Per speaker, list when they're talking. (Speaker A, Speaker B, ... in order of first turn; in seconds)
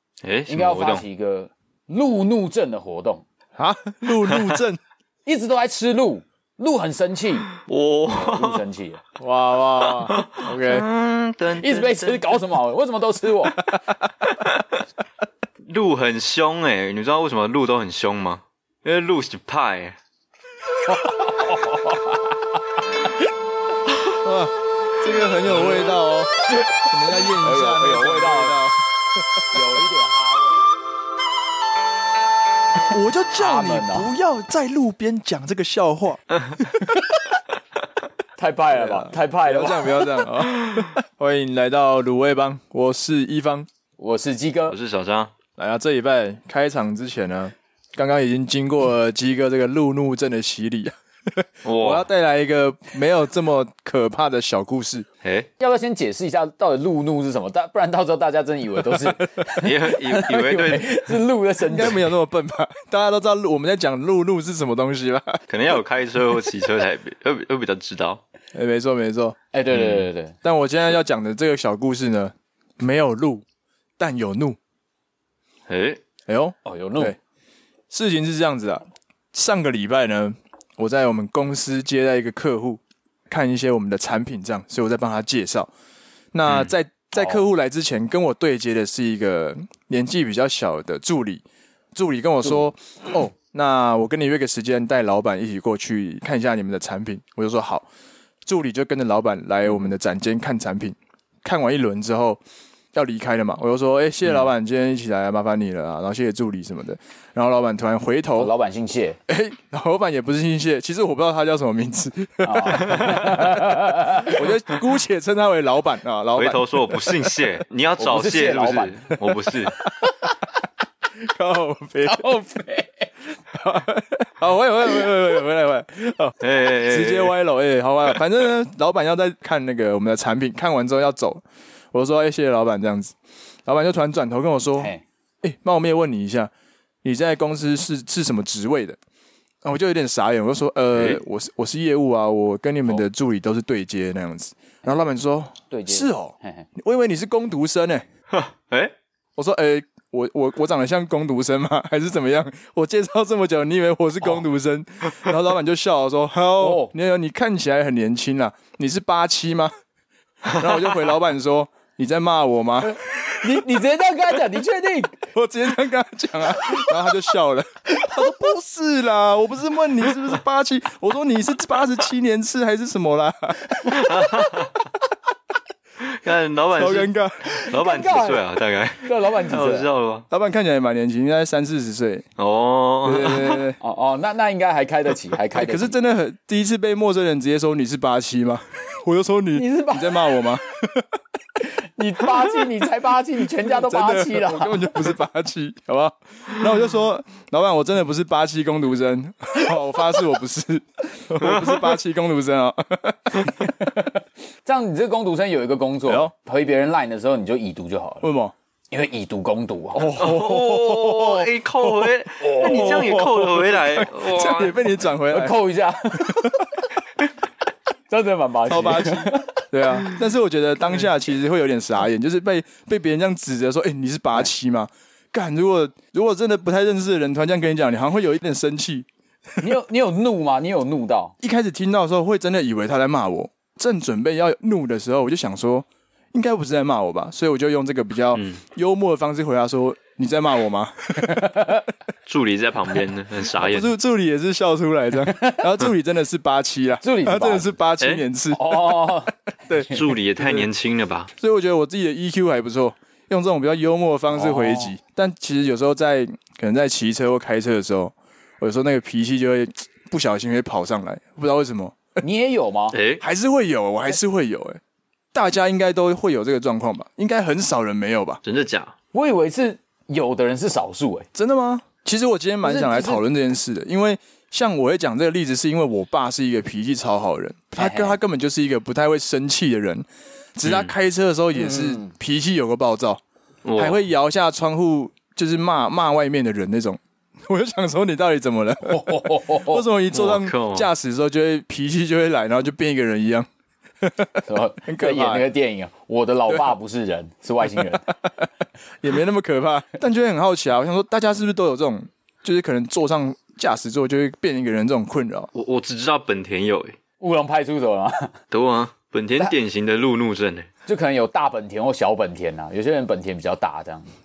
Speaker A: 0.2-1.1, 4.2-4.6, 7.6-8.6, 9.8-12.4, 14.5-14.8, 15.7-20.0, 44.7-45.3, 51.6-52.1, 55.2-55.5, 59.6-61.0, 65.5-68.2, 69.7-70.0, 75.7-76.0, 86.5-86.7, 116.4-119.8, 126.4-127.4, 140.9-141.2, 148.3-148.9, 173.9-174.8, 176.0-177.1, 177.6-180.3, 182.4-183.6, 201.4-202.0, 210.2-214.8, 238.3-238.6, 242.3-243.9, 249.9-251.3, 262.9-263.2, 268.4-268.9, 280.6-280.9, 283.6-284.0, 290.1-290.9, 305.5-307.0, 308.5-310.7
Speaker B: 0.5-3.2, 5.3-7.6, 8.1-9.0, 11.6-13.8, 20.9-22.3, 26.5-28.6, 29.5-30.7, 33.4-34.1, 38.4-40.3, 44.0-44.8, 55.6-62.1, 69.5-70.4, 76.7-77.2, 108.4-109.2, 112.5-114.8, 118.0-119.1, 122.1-123.1, 145.7-146.7, 156.6-156.9, 162.8-165.3, 166.6-166.9, 168.0-168.4, 177.6-178.4, 179.0-179.9, 183.8-186.0, 189.5-190.4, 191.6-195.2, 203.8-204.1, 204.7-208.2, 208.9-210.2, 212.4-213.2, 215.3-216.5, 218.1-219.6, 229.6-231.3, 241.3-241.8, 245.3-245.6, 247.0-247.8, 248.5-249.3, 254.3-254.9, 262.2-263.0, 269.1-271.3, 272.6-273.2, 277.8-278.2, 281.5-282.1, 288.9-289.9, 294.5-298.1, 307.2-308.3, 310.9-314.1
Speaker C: 3.6-4.8, 9.2-10.9, 24.2-28.8, 32.9-37.0, 38.7-43.7, 45.6-55.1, 61.6-65.4, 68.5-69.4, 70.4-73.5, 74.0-74.6, 76.3-77.2, 77.9-85.7, 86.3-97.9, 98.5-102.4, 102.9-108.5, 109.3-117.4, 119.7-120.0, 121.3-122.2, 123.5-134.9, 135.4-136.5, 137.0-139.0, 139.6-148.0, 149.4-159.7, 160.5-163.5, 165.3-174.2, 176.8-177.6, 180.3-182.3, 183.0-183.8, 185.6-191.1, 192.4-192.7, 193.6-203.8, 206.1-206.3, 208.2-208.5, 210.0-215.6, 216.1-216.7, 218.7-229.1, 231.4-241.6, 243.6-249.1, 249.7-250.7, 251.4-262.0, 263.2-264.8, 265.3-268.4, 271.4-280.1, 280.6-283.2, 283.8-293.5, 294.0-295.4, 296.5-296.7, 297.6-298.5, 299.0-305.5